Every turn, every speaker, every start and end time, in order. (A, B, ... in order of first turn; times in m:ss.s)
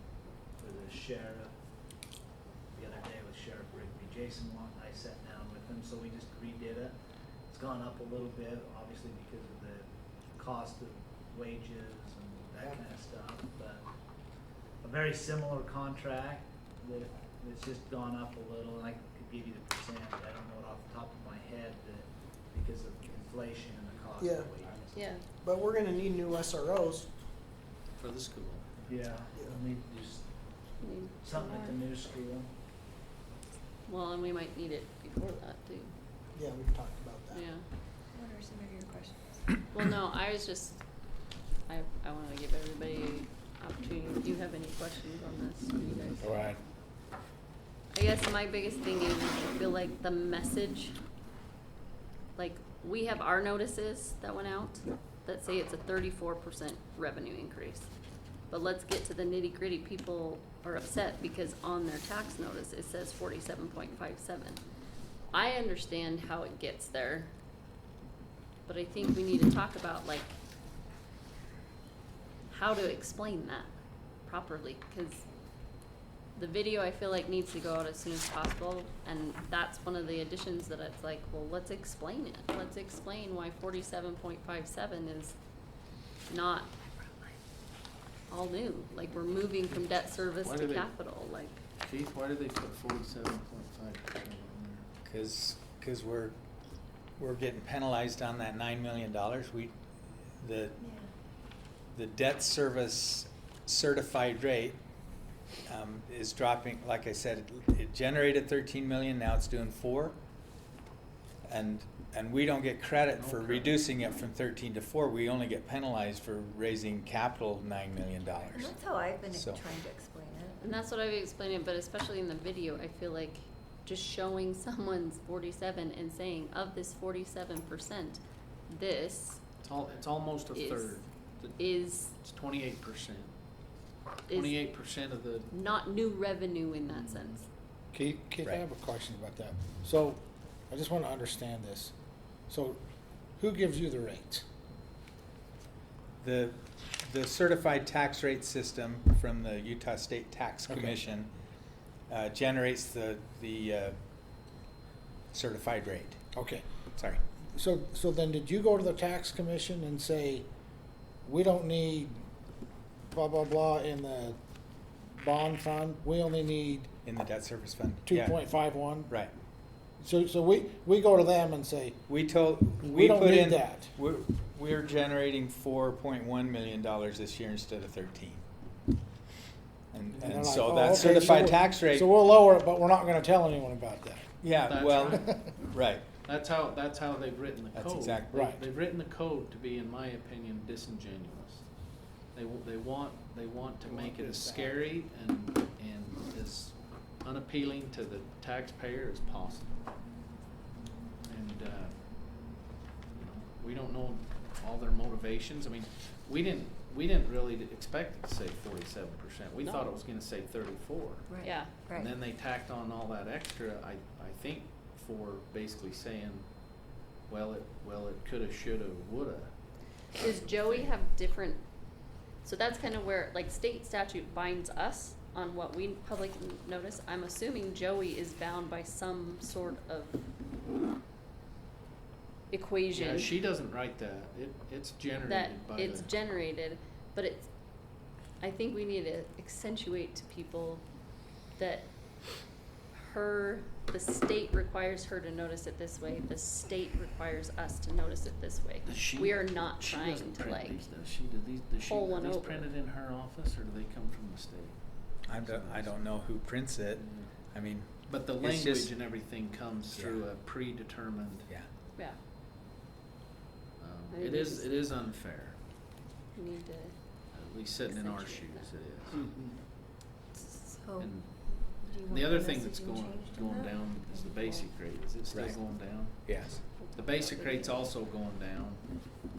0:00.6-0:01.5 A
0:02.7-0:07.0 A
0:07.5-0:13.9 A
0:14.8-0:25.0 A
0:24.2-0:24.5 B
0:24.9-0:25.2 C
0:25.4-0:27.1 B
0:28.0-0:28.6 D
0:28.8-0:30.2 A
0:30.8-0:31.8 C
0:31.2-0:32.5 A
0:33.9-0:35.9 C
0:36.4-0:37.1 E
0:36.5-0:37.3 B
0:37.3-0:37.6 C
0:38.1-0:39.4 F
0:39.7-0:40.8 C
0:41.7-0:46.3 C
0:46.2-0:46.6 E
0:47.9-0:51.0 C
0:52.4-0:57.9 C
0:58.5-1:04.6 C
1:05.3-1:07.3 C
1:08.7-1:10.3 C
1:12.5-1:13.7 C
1:14.2-1:15.2 C
1:16.4-1:25.4 C
1:26.3-1:26.7 C
1:28.3-1:31.6 C
1:30.4-1:30.9 D
1:31.8-1:34.8 D
1:35.0-1:36.4 G
1:37.2-1:39.7 G
1:40.4-1:40.8 G
1:41.9-1:44.8 G
1:45.7-1:50.2 G
1:51.4-1:58.8 G
1:53.1-1:53.8 D
1:58.5-2:00.6 F
1:59.2-1:59.7 G
2:00.6-2:09.4 C
2:09.6-2:11.6 D
2:10.5-2:11.0 C
2:11.6-2:12.2 C
2:12.2-2:13.3 D
2:14.3-2:14.7 C
2:14.3-2:15.5 D
2:15.5-2:17.5 C
2:16.9-2:17.4 D
2:17.9-2:21.9 E
2:22.5-2:22.8 E
2:23.4-2:24.4 E
2:26.2-2:31.3 G
2:30.7-2:30.9 E
2:32.1-2:34.0 G
2:35.3-2:36.2 G
2:36.3-2:36.6 E
2:37.6-2:40.5 E
2:41.2-2:42.2 E
2:43.1-2:44.4 E
2:45.2-2:46.9 E
2:47.0-2:48.4 G
2:48.0-2:49.1 E
2:50.0-2:52.0 E
2:52.1-2:58.4 G
2:52.8-2:53.9 E
2:59.9-3:02.1 G
3:00.2-3:04.3 E
3:04.4-3:06.0 G
3:04.6-3:05.3 D
3:05.1-3:05.6 E
3:06.2-3:11.6 D
3:07.8-3:08.3 G
3:08.3-3:08.6 E
3:12.3-3:19.8 D
3:14.3-3:14.6 E
3:21.3-3:21.9 D
3:23.1-3:36.5 D
3:31.3-3:32.1 F
3:31.4-3:31.9 C
3:37.3-3:39.5 D
3:40.2-3:41.6 C
3:42.4-3:50.2 C
3:52.5-3:53.4 C
3:52.9-3:56.1 D
3:55.2-3:57.5 C
3:58.4-4:00.8 C
4:01.6-4:01.9 C
4:02.9-4:10.9 C
4:08.8-4:16.1 D
4:11.8-4:12.7 C
4:15.3-4:18.9 G
4:16.9-4:17.3 D
4:18.1-4:21.5 D
4:19.9-4:20.2 G
4:23.8-4:25.6 D
4:24.1-4:24.8 C
4:26.3-4:27.0 C
4:27.3-4:29.2 D
4:27.8-4:28.7 C
4:30.5-4:31.1 F
4:31.0-4:38.8 D
4:31.9-4:33.7 F
4:35.3-4:36.6 G
4:36.8-4:37.8 C